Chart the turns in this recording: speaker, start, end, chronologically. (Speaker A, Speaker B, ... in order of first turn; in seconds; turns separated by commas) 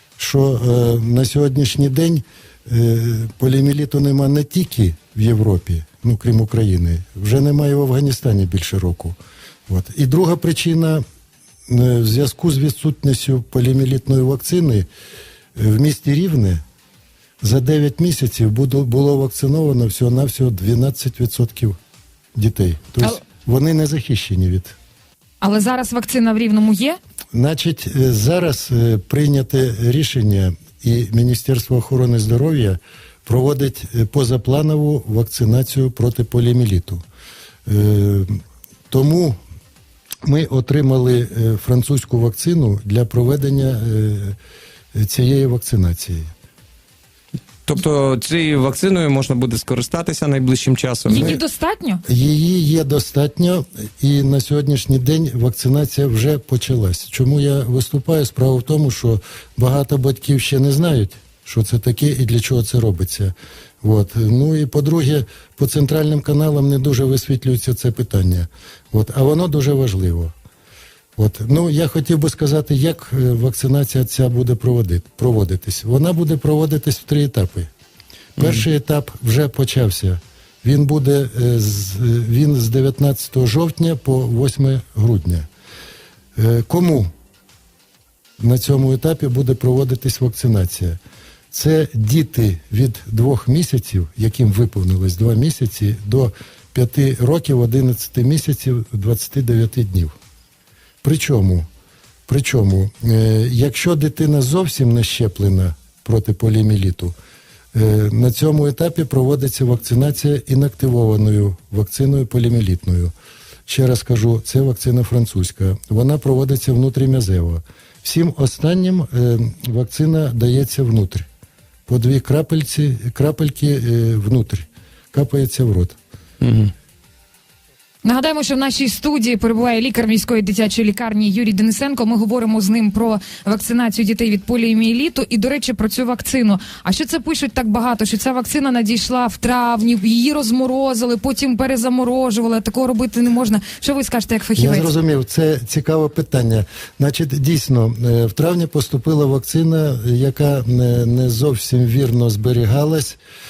Speaker A: 0.2-9.2, Speaker A: 9.7-11.0, Speaker A: 11.7-14.9, Speaker A: 15.6-16.6, Speaker A: 17.4-21.8, Speaker A: 22.4-24.8, Speaker B: 25.4-27.0, Speaker A: 27.3-37.0, Speaker A: 37.7-38.4, Speaker A: 38.9-39.4, Speaker A: 40.2-44.4, Speaker A: 44.9-46.3, Speaker C: 47.7-51.4, Speaker B: 51.0-52.0, Speaker A: 51.1-51.4, Speaker A: 52.0-70.3, Speaker A: 71.2-77.7, Speaker C: 78.4-78.7, Speaker A: 78.4-85.5, Speaker A: 86.3-87.1, Speaker A: 88.4-91.0, Speaker A: 91.5-100.1, Speaker A: 101.0-101.7, Speaker A: 102.3-107.1, Speaker A: 107.7-113.1, Speaker A: 113.7-121.2, Speaker A: 121.9-126.0, Speaker C: 126.4-126.7, Speaker B: 128.0-144.9, Speaker A: 144.6-153.2